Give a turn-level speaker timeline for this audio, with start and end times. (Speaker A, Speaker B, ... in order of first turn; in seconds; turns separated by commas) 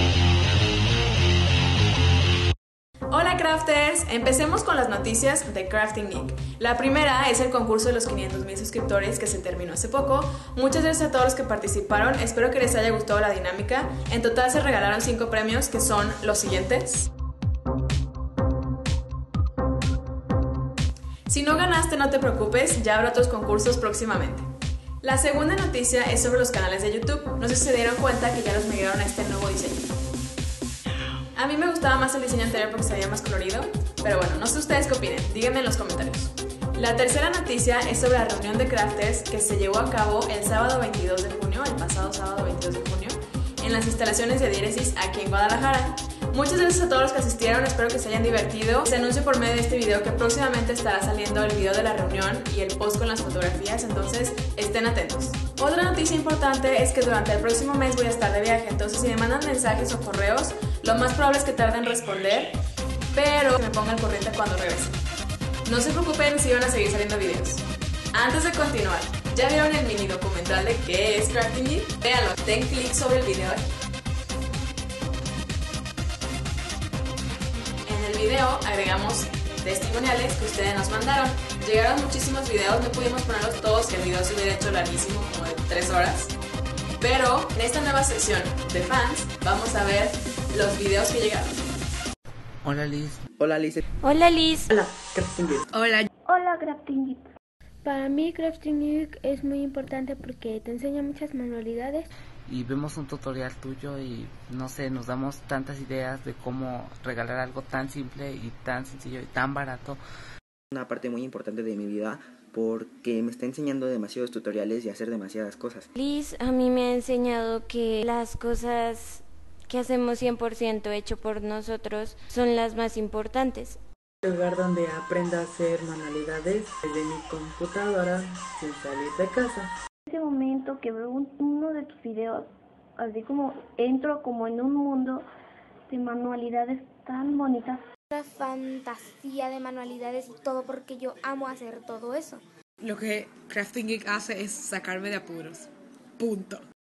Speaker A: 3.1-17.1, Speaker A: 21.3-24.5, Speaker A: 25.0-29.9, Speaker A: 31.3-62.6, Speaker A: 63.1-65.0, Speaker A: 65.7-73.8, Speaker A: 77.8-86.3, Speaker A: 87.0-91.7, Speaker B: 92.6-93.2, Speaker C: 93.4-93.8, Speaker D: 94.0-94.7, Speaker E: 94.7-95.7, Speaker F: 95.7-96.1, Speaker G: 96.3-97.3, Speaker H: 97.8-102.1, Speaker B: 102.5-110.0, Speaker C: 110.7-115.8, Speaker D: 115.9-123.8, Speaker E: 124.2-129.7, Speaker G: 130.1-135.2, Speaker G: 135.9-137.8, Speaker I: 138.1-142.4, Speaker F: 142.8-146.6